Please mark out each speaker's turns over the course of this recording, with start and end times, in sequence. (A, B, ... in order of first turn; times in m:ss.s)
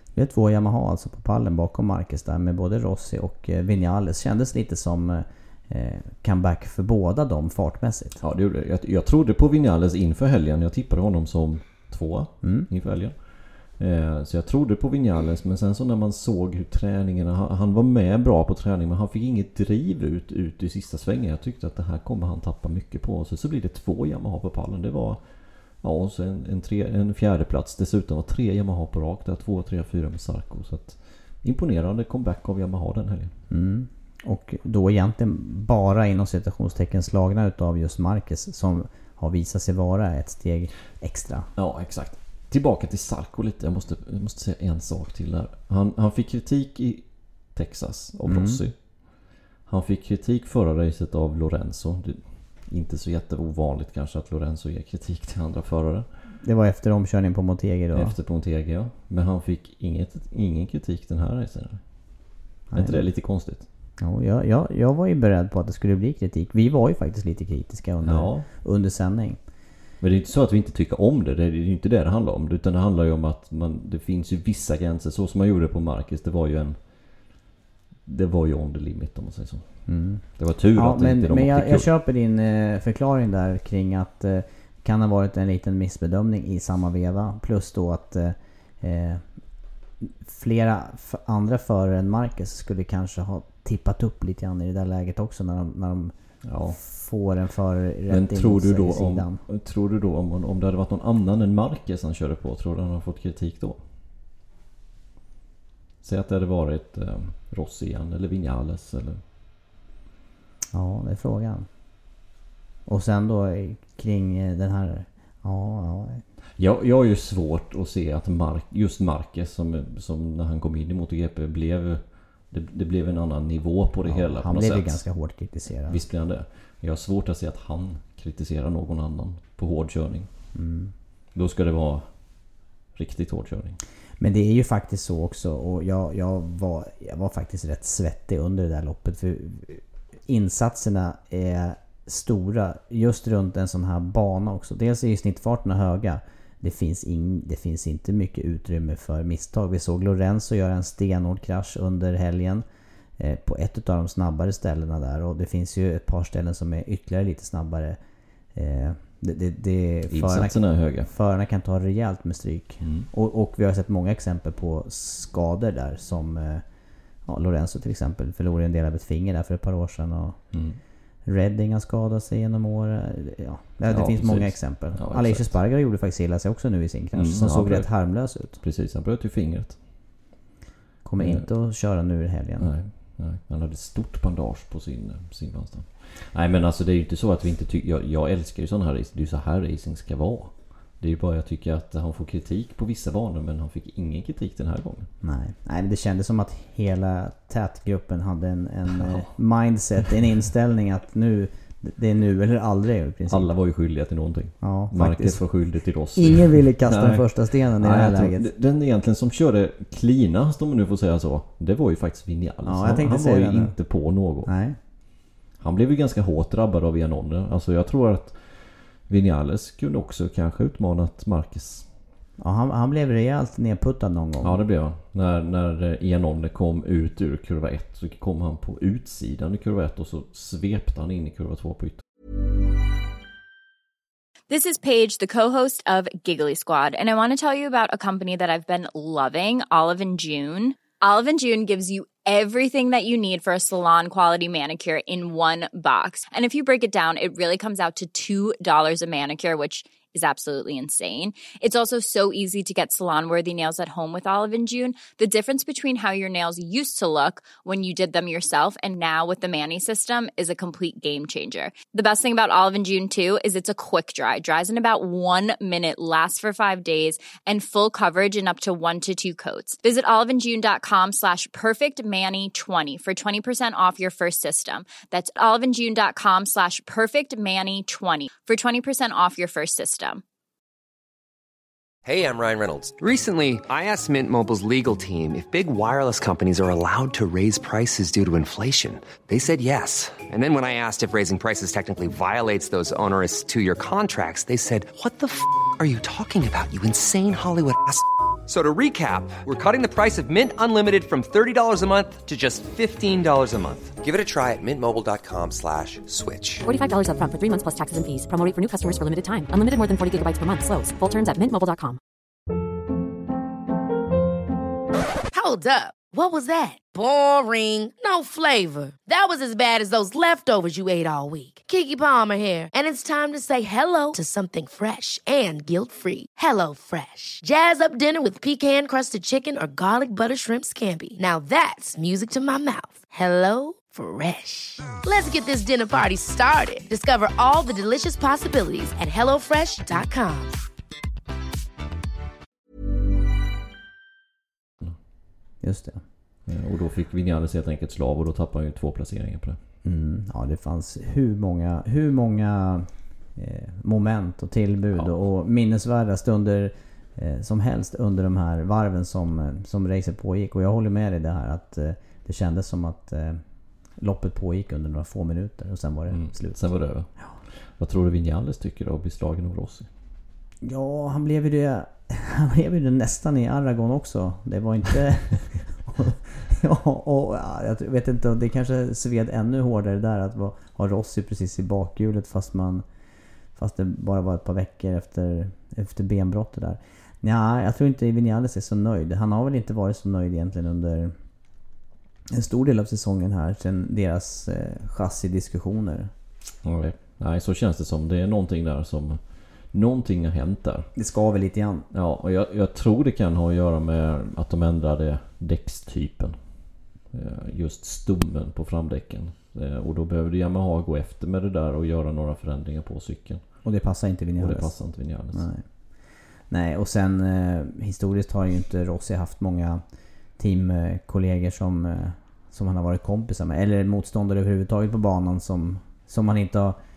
0:00.1-0:08.2 A
0:08.2-0:33.3 B
0:12.4-0:12.7 A
0:33.5-0:41.5 A
0:41.6-0:56.1 B
0:48.3-0:48.6 A
0:56.4-0:58.2 A
0:57.9-1:01.8 B
1:02.7-1:03.0 A
1:02.7-1:03.7 B
1:04.0-1:09.4 A
1:08.0-1:08.5 B
1:10.0-1:17.3 B
1:18.0-1:21.9 B
1:19.9-1:29.2 A
1:30.0-1:36.1 A
1:36.4-1:36.8 B
1:36.7-1:39.4 A
1:38.1-1:43.8 B
1:46.0-1:49.2 B
1:50.7-1:51.7 A
1:52.9-1:56.2 A
1:56.6-2:05.0 B
2:04.1-2:06.0 A
2:05.9-2:10.3 B
2:10.6-2:10.9 A
2:11.4-2:13.8 B
2:14.2-2:32.6 A
2:33.2-2:38.0 A
2:38.6-2:46.6 A
2:40.1-2:41.1 B
2:42.8-2:43.1 B
2:47.3-2:50.4 A
2:50.5-2:50.8 B
2:51.2-2:58.6 A
2:53.9-2:55.5 B
2:57.1-2:59.8 B
3:01.0-3:02.7 A
3:01.2-3:01.5 B
3:02.6-3:15.1 B
3:15.2-3:23.5 A
3:18.9-3:19.3 B
3:23.3-3:34.5 B
3:24.6-3:25.5 A
3:26.2-3:28.5 A
3:32.6-3:33.8 A
3:34.4-3:34.8 A
3:35.6-3:41.9 B
3:42.4-3:44.6 A
3:44.4-3:52.0 B
3:54.5-4:40.2 C
4:42.0-5:06.6 D
5:06.6-5:12.0 E
5:15.3-5:40.6 F
5:45.6-5:46.0 A
5:46.5-5:49.6 B
5:49.8-6:03.4 A
6:04.0-6:06.6 A
6:06.1-6:09.9 B
6:10.6-6:22.8 A
6:23.6-6:31.2 A
6:32.3-6:36.1 A
6:36.6-6:40.9 B
6:41.0-6:41.9 A
6:41.9-6:53.6 B
6:53.6-6:59.8 A
6:54.4-6:55.5 B
7:00.4-7:06.8 A